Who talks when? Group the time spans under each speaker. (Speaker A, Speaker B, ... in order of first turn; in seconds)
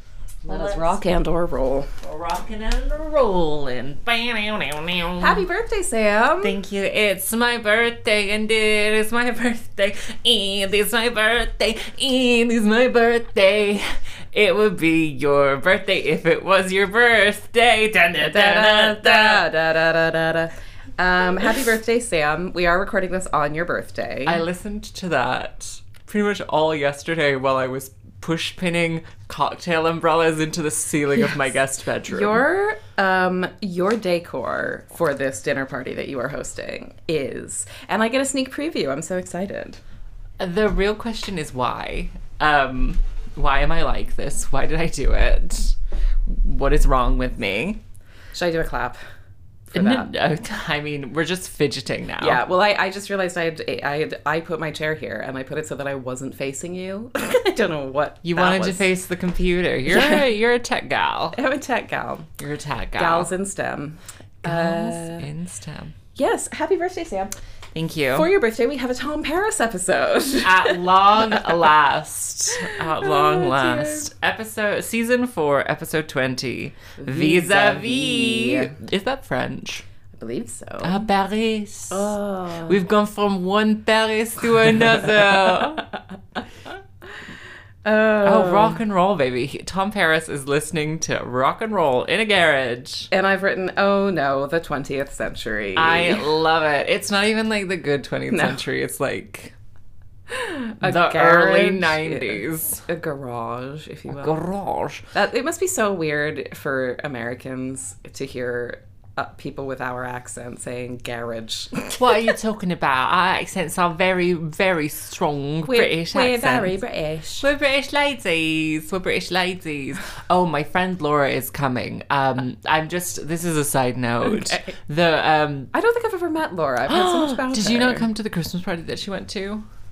Speaker A: 0.4-1.0, 2.0-5.4, 6.4-19.4, 24.2-32.4, 40.4-47.8, 49.7-52.4, 58.2-61.4, 62.4-63.3, 64.4-65.9, 67.7-68.3, 70.4-79.8, 80.8-82.1, 82.7-85.9, 88.2-93.1, 95.8-99.5, 100.8-102.8, 104.1-105.0, 111.9-116.8, 117.4-125.7, 126.9-129.6
Speaker B: 0.5-1.9, 5.2-6.5, 18.2-24.4, 32.1-39.8, 48.3-49.0, 49.7-50.1, 52.2-58.9, 59.9-60.2, 61.3-62.3, 63.0-65.3, 66.2-67.3, 68.1-71.6, 72.5-74.1, 77.0-78.8, 80.1-81.0, 81.9-82.8, 85.0-85.8, 87.8-88.8, 93.1-96.3, 98.3-98.6, 100.3-104.3, 105.1-111.9, 115.7-117.5, 124.2-124.7, 125.7-128.1